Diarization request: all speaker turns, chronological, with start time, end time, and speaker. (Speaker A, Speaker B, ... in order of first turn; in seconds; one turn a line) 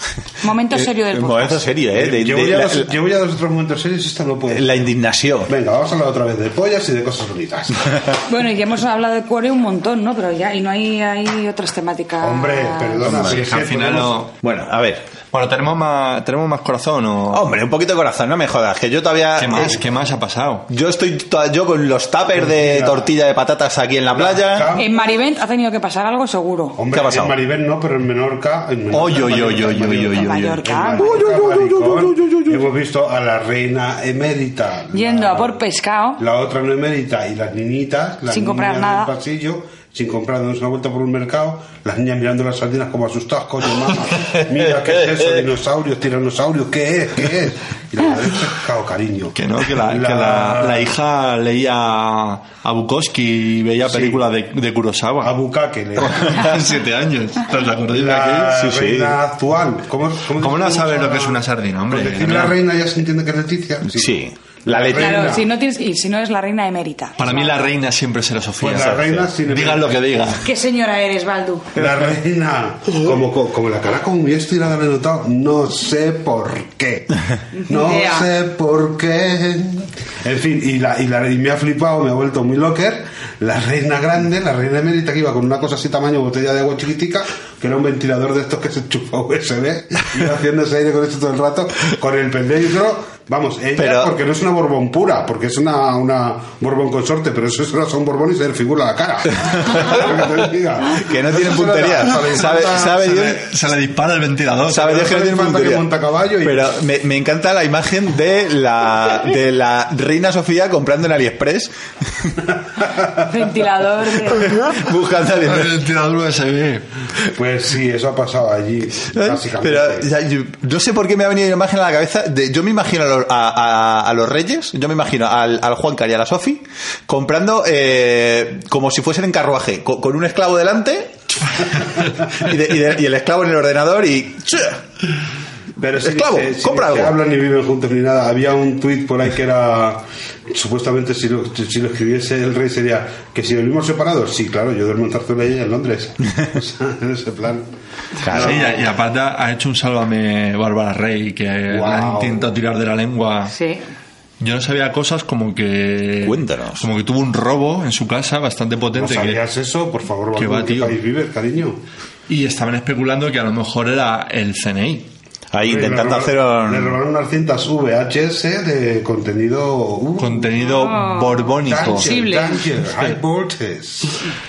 Speaker A: 0.4-1.6
Speaker B: 0.7-2.9
Speaker C: 1.9-4.9
Speaker B: 4.5-5.5
Speaker C: 5.4-8.2
Speaker A: 8.3-13.1
Speaker C: 12.2-14.2
Speaker B: 13.0-13.4
Speaker D: 13.1-14.3
Speaker B: 14.4-15.1
Speaker D: 15.3-17.5
Speaker B: 17.3-19.8
Speaker D: 19.4-20.7
Speaker B: 20.7-24.7
Speaker C: 22.3-23.2
Speaker C: 24.1-24.9
Speaker A: 24.8-26.8
Speaker C: 26.8-35.6
Speaker B: 26.9-27.4
Speaker D: 28.9-32.6
Speaker A: 30.1-31.0
Speaker A: 34.9-36.2
Speaker C: 36.2-50.9
Speaker A: 38.3-39.1
Speaker D: 49.3-55.4
Speaker C: 53.8-54.2
Speaker C: 55.2-56.5
Speaker D: 56.0-58.6
Speaker C: 57.9-65.5
Speaker B: 58.5-59.2
Speaker D: 60.4-62.6
Speaker B: 63.9-65.4
Speaker A: 64.9-67.6
Speaker D: 67.2-70.4
Speaker C: 68.6-70.1
Speaker A: 70.4-71.7
Speaker C: 71.8-103.1
Speaker A: 77.6-78.3
Speaker B: 93.8-94.1
Speaker B: 100.9-103.5
Speaker D: 102.8-105.0
Speaker B: 104.7-105.8
Speaker C: 104.8-106.7
Speaker B: 106.4-112.4
Speaker C: 112.7-113.3
Speaker A: 113.2-114.6
Speaker B: 114.3-115.8
Speaker D: 115.4-116.9
Speaker C: 117.3-120.1
Speaker B: 119.1-134.8
Speaker C: 135.8-147.7
Speaker B: 136.0-137.1
Speaker B: 148.2-148.7
Speaker C: 148.2-148.9
Speaker D: 148.3-153.6
Speaker C: 151.7-152.5
Speaker A: 153.5-153.8
Speaker D: 154.4-159.4
Speaker B: 156.2-156.8
Speaker C: 158.9-161.8
Speaker D: 160.4-161.0
Speaker D: 162.3-165.1
Speaker B: 165.5-167.0
Speaker C: 165.6-170.7
Speaker D: 170.2-172.1
Speaker A: 170.8-172.7
Speaker C: 171.6-174.3